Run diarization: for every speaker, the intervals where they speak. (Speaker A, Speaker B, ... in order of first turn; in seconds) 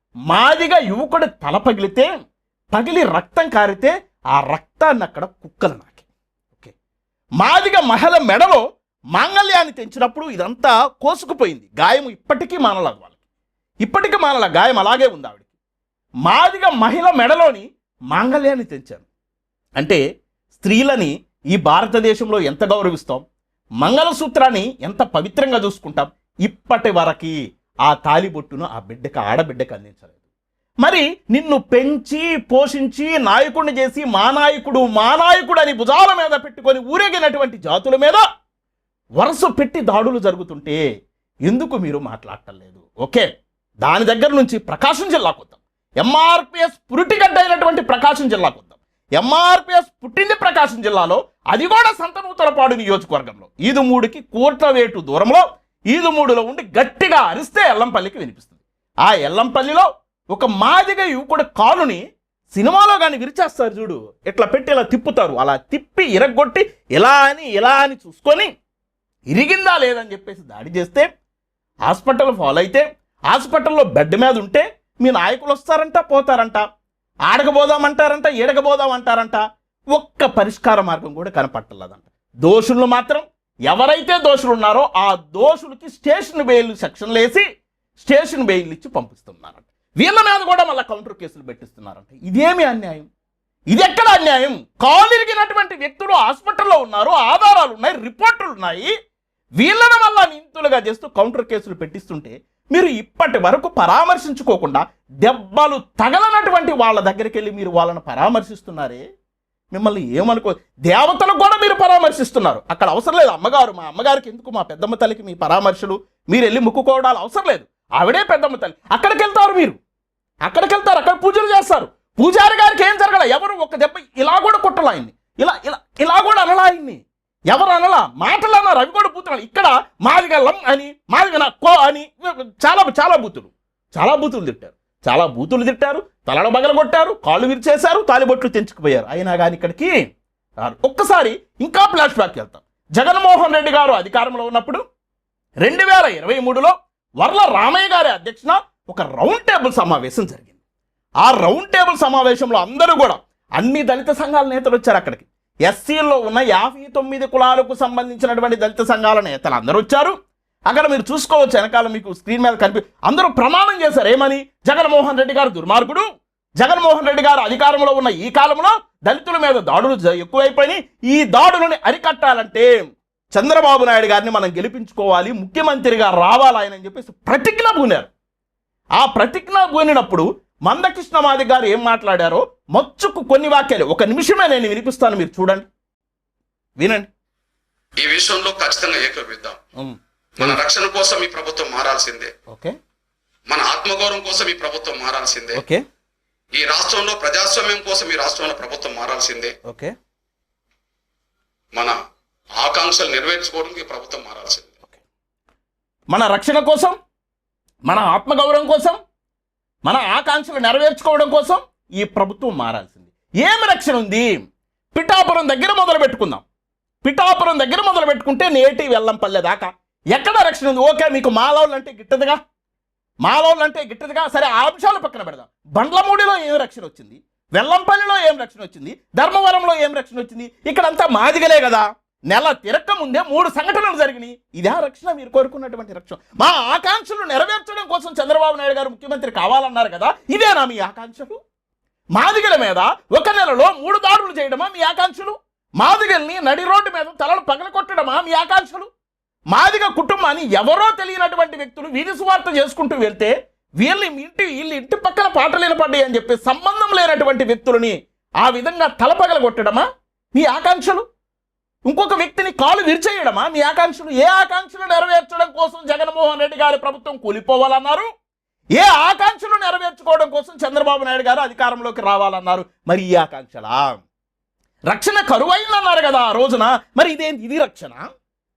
Speaker A: 0.3-2.1, 2.7-6.0, 7.4-8.6, 9.1-13.1, 13.8-15.4, 16.2-19.1, 20.6-23.2, 23.8-30.1, 30.8-38.2, 39.2-40.8, 41.5-43.3, 43.8-68.5, 69.3-71.0, 71.9-76.6, 77.3-79.4, 79.9-87.4, 88.0-93.1, 93.7-98.9, 99.6-109.0, 109.7-119.8, 120.4-139.9, 140.6-144.8, 145.6-150.5, 151.2-160.1, 160.7-166.0, 166.6-172.7, 173.3-178.1, 179.0-185.7, 186.8-187.1, 189.8-190.6, 192.5-192.7, 195.5-195.8, 199.7-199.9, 206.1-206.9, 207.8-209.0, 209.8-216.4, 217.0-222.4, 223.2-241.4, 242.1-248.9, 249.5-261.0, 261.8-268.1, 268.7-274.0, 274.9-278.1
Speaker B: 188.0-189.6, 190.4-192.3, 193.5-195.6, 196.5-199.5, 202.6-204.8